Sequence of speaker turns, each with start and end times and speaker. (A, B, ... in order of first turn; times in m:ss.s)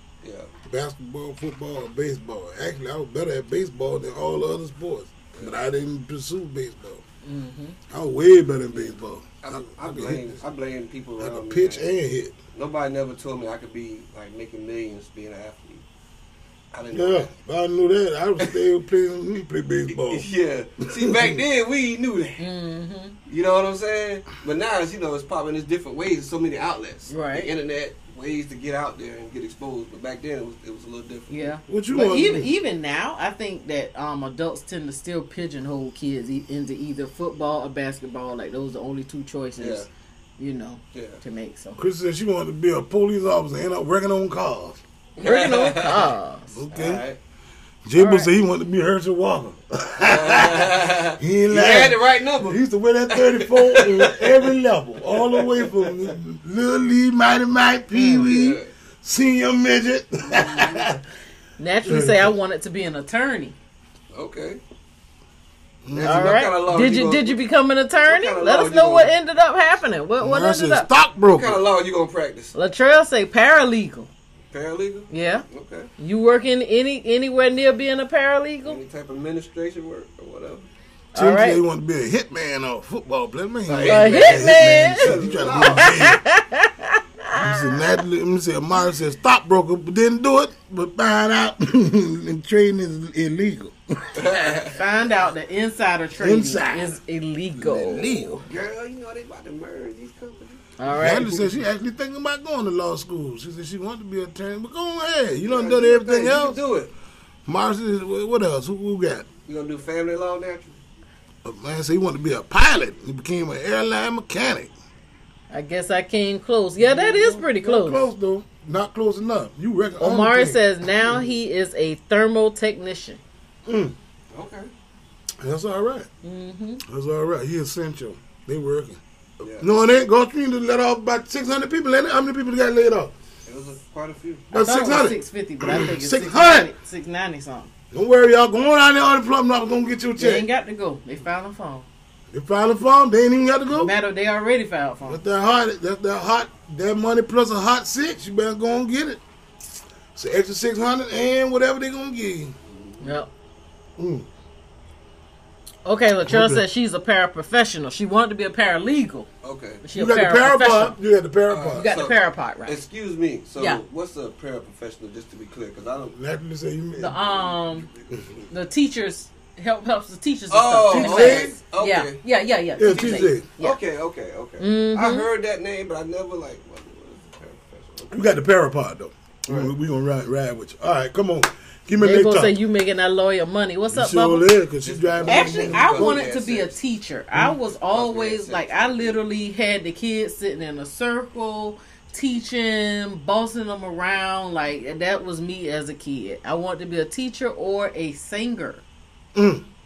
0:00.2-0:00.5 A
0:00.6-0:07.0 B
0:07.2-0:07.8 C
0:07.9-0:10.4 B
0:08.7-0:11.9 A
0:11.2-0:12.4 B
0:12.5-0:15.8 A
0:16.7-0:17.3 A
0:16.9-0:20.3 B
0:19.9-0:22.4 A
0:20.9-0:21.4 B
0:22.4-0:23.2 C
0:23.3-0:31.4 A
0:27.1-0:27.5 C
0:31.3-0:39.9 C
0:31.7-0:32.5 B
0:39.6-0:39.9 A
0:40.4-0:41.8 C
0:40.9-0:41.2 A
0:41.8-0:44.8 B
0:45.2-0:46.1 A
0:45.2-0:46.6 C
0:46.5-0:47.0 B
0:46.7-0:47.2 A
0:47.8-1:01.0 B
0:48.0-0:48.3 C
0:50.0-0:52.6 A
0:53.1-0:54.5 A
0:55.0-0:56.1 A
0:58.0-0:58.2 C
0:58.2-0:58.7 A
1:00.3-1:00.8 A
1:01.6-1:03.6 C
1:01.8-1:02.3 B
1:04.1-1:04.6 A
1:05.8-1:06.4 B
1:05.9-1:07.4 A
1:06.0-1:10.9 C
1:08.0-1:09.1 A
1:10.2-1:11.6 B
1:11.2-1:12.5 A
1:12.5-1:14.1 C
1:14.5-1:15.9 A
1:15.1-1:15.4 C
1:16.0-1:18.8 C
1:18.6-1:20.7 A
1:21.2-1:21.6 C
1:21.2-1:26.2 B
1:23.7-1:26.1 A
1:23.9-1:27.6 C
1:27.3-1:34.3 B
1:34.2-1:34.8 A
1:34.7-1:38.4 C
1:36.2-1:37.0 B
1:37.6-1:38.4 B
1:38.4-1:40.7 A
1:40.8-1:41.5 C
1:40.9-1:46.6 B
1:45.5-1:46.9 A
1:47.5-1:49.3 B
1:49.5-1:50.8 A
1:51.4-1:54.7 B
1:55.5-1:58.1 C
1:56.8-2:01.2 B
2:00.0-2:03.2 C
2:03.7-2:04.0 B
2:04.3-2:04.7 A
2:05.4-2:06.1 B
2:06.2-2:06.8 C
2:06.8-2:09.0 B
2:09.4-2:09.7 A
2:09.6-2:13.1 B
2:13.5-2:14.5 A
2:14.5-2:16.7 B
2:14.6-2:17.7 C
2:17.9-2:20.5 B
2:20.2-2:21.9 C
2:22.3-2:23.9 B
2:23.7-2:25.2 C
2:25.1-2:29.2 B
2:30.2-2:32.6 B
2:32.7-2:33.1 A
2:33.0-2:33.3 C
2:34.0-2:34.3 B
2:35.8-2:39.3 C
2:36.3-2:36.6 B
2:39.4-2:39.8 A
2:39.8-2:41.0 C
2:39.9-2:41.9 B
2:41.5-2:46.2 A
2:41.8-2:42.8 C
2:46.1-2:47.2 B
2:47.0-2:47.9 C
2:47.2-2:48.4 A
2:48.5-2:53.8 C
2:50.5-2:52.2 A
2:50.9-2:51.6 B
2:52.8-2:53.5 B
2:52.8-2:58.2 A
2:54.6-2:55.3 C
2:58.1-3:02.6 B
2:59.5-2:59.7 A
3:02.0-3:04.5 C
3:03.9-3:06.2 B
3:04.8-3:06.8 A
3:05.3-3:18.8 C
3:07.9-3:09.2 A
3:19.4-3:19.6 B